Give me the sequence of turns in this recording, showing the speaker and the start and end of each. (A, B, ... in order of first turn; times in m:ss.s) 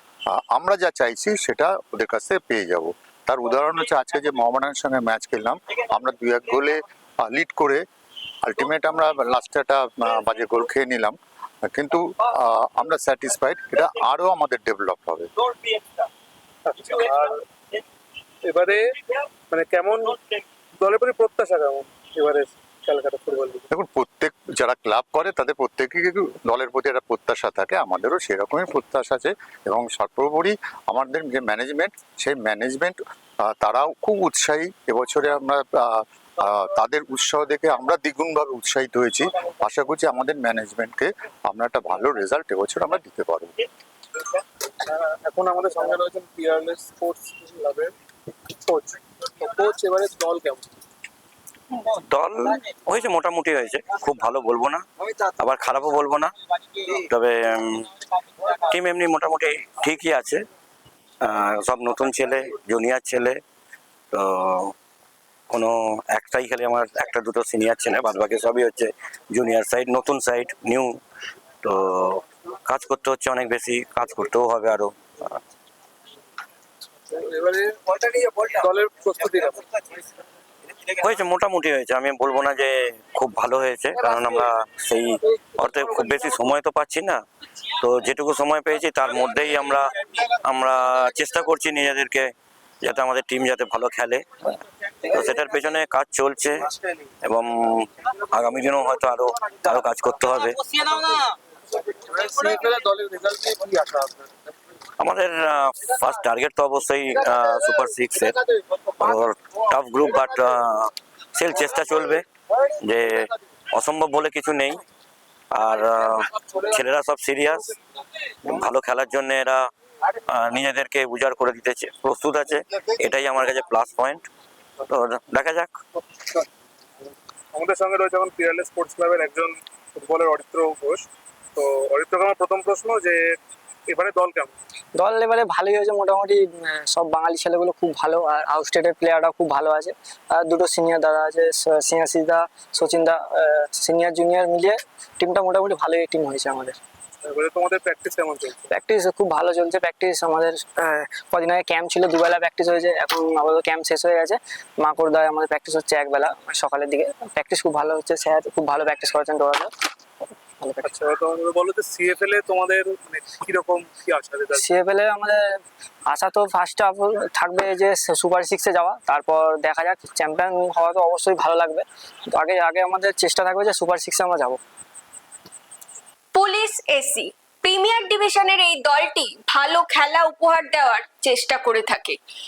0:00.3-0:07.8 A
0:08.4-0:15.3 A
0:16.7-0:17.4 B
0:18.5-0:18.8 B
0:19.5-0:20.2 B
0:20.8-0:23.6 B
0:23.7-0:43.6 A
0:44.9-0:47.9 B
0:48.7-0:50.7 B
0:52.1-0:54.8 C
0:55.4-0:56.3 C
0:57.1-0:57.9 C
0:58.6-1:00.4 C
1:01.2-1:03.4 C
1:04.1-1:04.7 C
1:05.5-1:11.0 C
1:11.6-1:14.9 C
1:17.1-1:19.6 B
1:20.9-1:27.2 C
1:27.8-1:29.9 C
1:30.4-1:34.2 C
1:35.1-1:36.7 C
1:37.2-1:40.6 C
1:42.4-1:44.1 B
1:45.0-1:48.4 C
1:49.0-1:52.2 C
1:52.8-1:54.8 C
1:55.5-1:57.7 C
1:58.4-1:59.7 C
2:00.3-2:04.3 C
2:04.9-2:05.8 C
2:07.5-2:11.0 B
2:11.6-2:13.2 B
2:13.9-2:14.6 B
2:15.0-2:23.2 D
2:23.8-2:26.8 D
2:27.3-2:28.7 B
2:28.7-2:30.7 D
2:31.3-2:39.7 D
2:40.6-2:40.9 D
2:40.8-2:44.6 B
2:44.6-2:45.3 D
2:46.1-2:54.6 D
2:56.4-3:02.2 E